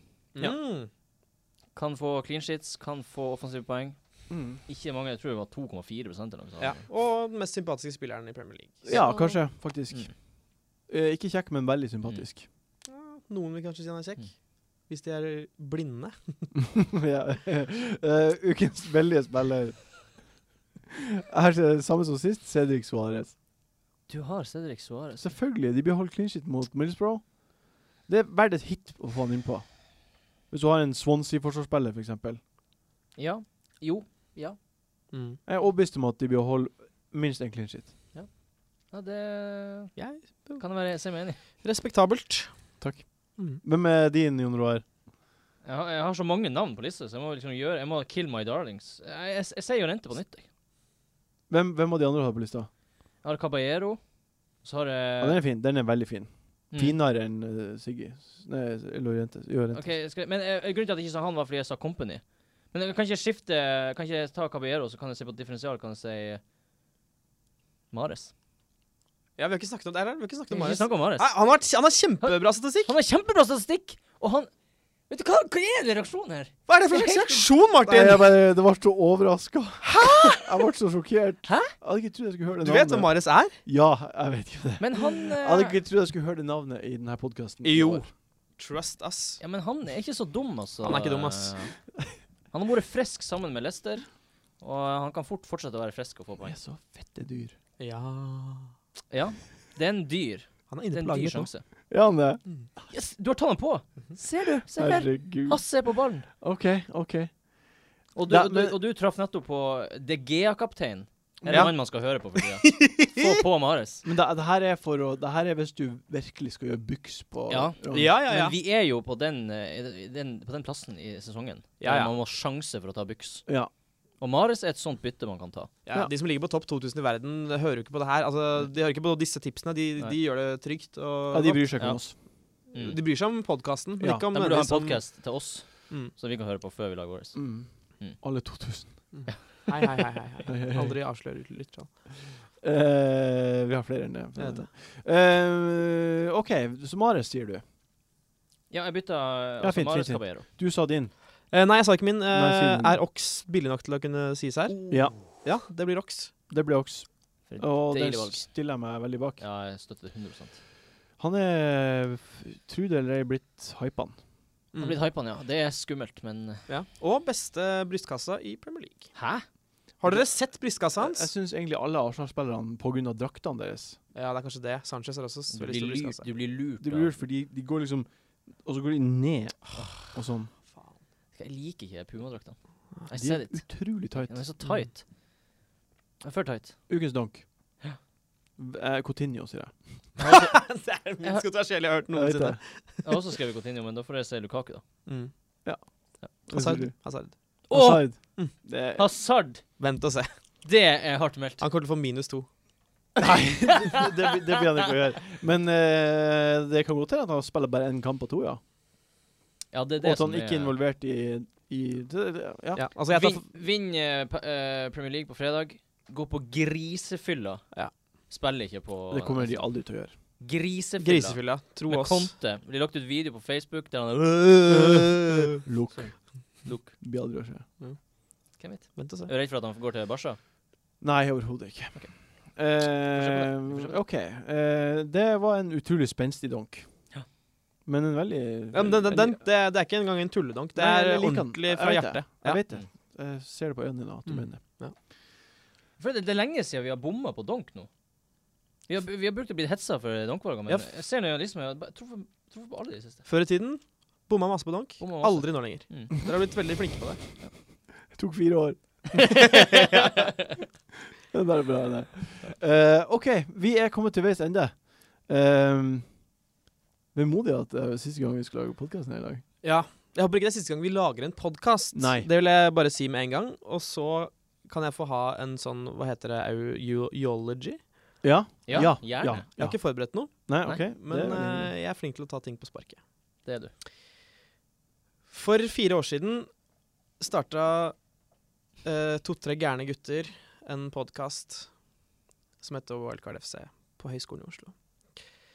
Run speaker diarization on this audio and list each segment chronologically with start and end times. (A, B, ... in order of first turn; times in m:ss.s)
0:00.4-0:00.9 A
0:01.7-0:06.8 B
0:04.3-0:04.6 C
0:06.6-0:09.0 A
0:08.9-0:12.4 C
0:08.9-0:10.1 B
0:12.9-0:16.5 A
0:16.7-0:20.1 C
0:21.1-0:23.3 C
0:24.1-0:25.3 B
0:25.2-0:32.4 C
0:33.2-0:34.6 B
0:35.1-0:35.4 A
0:35.5-0:38.0 C
0:38.1-0:41.4 B
0:40.0-0:42.7 A
0:42.8-0:44.8 C
0:45.6-0:50.5 B
0:51.5-0:52.7 C
0:53.2-0:54.0 B
0:54.6-0:55.4 B
0:55.2-0:59.9 C
0:56.7-0:57.0 B
0:59.7-1:06.4 B
1:07.9-1:08.3 B
1:09.4-1:12.9 A
1:10.5-1:11.4 B
1:12.2-1:14.5 B
1:15.1-1:17.5 B
1:16.7-1:18.3 A
1:17.9-1:28.0 C
1:19.8-1:20.4 A
1:21.5-1:21.7 B
1:22.6-1:23.6 A
1:24.8-1:25.8 B
1:27.6-1:29.4 A
1:29.4-1:31.8 B
1:30.8-1:31.6 A
1:32.5-1:36.6 B
1:36.4-1:37.5 C
1:37.8-1:38.7 A
1:39.1-1:41.6 B
1:40.7-1:41.5 A
1:41.9-1:42.4 C
1:42.9-1:46.3 B
1:44.8-1:45.8 C
1:46.4-1:47.8 C
1:48.2-1:54.0 B
1:48.3-1:48.8 C
1:51.4-1:51.7 C
1:51.4-1:51.7 A
1:52.6-1:53.4 A
1:54.0-1:58.1 C
1:57.5-2:03.5 B
1:57.9-1:58.6 A
2:01.8-2:02.1 A
2:04.2-2:05.7 B
2:05.9-2:11.8 A
2:11.3-2:12.2 C
2:12.7-2:13.0 B
2:12.7-2:15.3 A
2:14.0-2:14.3 C
2:14.3-2:17.4 B
2:17.4-2:19.0 C
2:19.1-2:21.9 A
2:19.3-2:19.8 B
2:20.5-2:21.0 C
2:22.6-2:27.6 C
2:24.4-2:24.7 A
2:28.7-2:30.5 B
2:29.6-2:31.1 C
2:31.5-2:36.3 A
2:32.3-2:33.0 C
2:34.8-2:35.1 B
2:34.9-2:35.2 C
2:36.5-2:39.4 C
2:37.5-2:38.4 B
2:39.4-2:40.6 B
2:41.2-2:44.2 C
2:44.7-2:45.0 A
2:44.8-2:46.7 B
2:46.7-2:49.2 A
2:49.2-2:49.4 B
2:50.0-2:51.3 A
2:50.0-2:50.3 C
2:50.9-2:54.0 C
2:54.2-2:56.3 A
2:55.5-2:57.2 B
2:56.8-3:00.5 C
3:00.7-3:01.0 A
3:01.3-3:05.1 B
3:03.1-3:04.5 C
3:06.2-3:06.8 B
3:06.9-3:07.4 C
3:08.6-3:09.8 C
3:10.2-3:10.6 B
3:10.2-3:13.0 A
3:12.1-3:12.6 C
3:13.0-3:14.8 B
3:15.1-3:15.3 A
3:16.3-3:17.0 C
3:16.5-3:17.6 A
3:17.7-3:19.1 C
3:17.7-3:19.8 B
3:19.8-3:20.4 A
3:20.6-3:21.6 B
3:21.6-3:22.5 A
3:23.2-3:28.6 C
3:23.7-3:24.0 B
3:29.7-3:30.8 B
3:30.0-3:32.8 C
3:32.8-3:33.5 A
3:33.1-3:39.7 B
3:39.1-3:40.1 C
3:40.4-3:46.9 B
3:41.0-3:42.3 A
3:45.6-3:47.7 C
3:48.6-3:50.4 B
3:49.0-3:49.3 A
3:51.0-3:56.9 C
3:53.1-3:54.0 B
3:57.9-3:59.4 C
3:58.7-4:02.6 A
4:00.8-4:04.6 C
4:04.3-4:05.0 A
4:06.0-4:07.9 B
4:08.9-4:13.2 B
4:13.3-4:17.2 A
4:15.0-4:16.1 B
4:18.1-4:19.3 C
4:19.2-4:20.3 B
4:19.5-4:20.0 A
4:21.3-4:26.1 C
4:27.1-4:29.4 C
4:29.6-4:37.8 A
4:31.9-4:32.3 C
4:38.2-4:41.7 C
4:38.7-4:39.5 B
4:39.4-4:43.0 A
4:43.4-4:43.7 B
4:45.3-4:46.5 A
4:47.2-4:48.0 A
4:48.8-4:51.9 A
4:52.6-4:54.8 A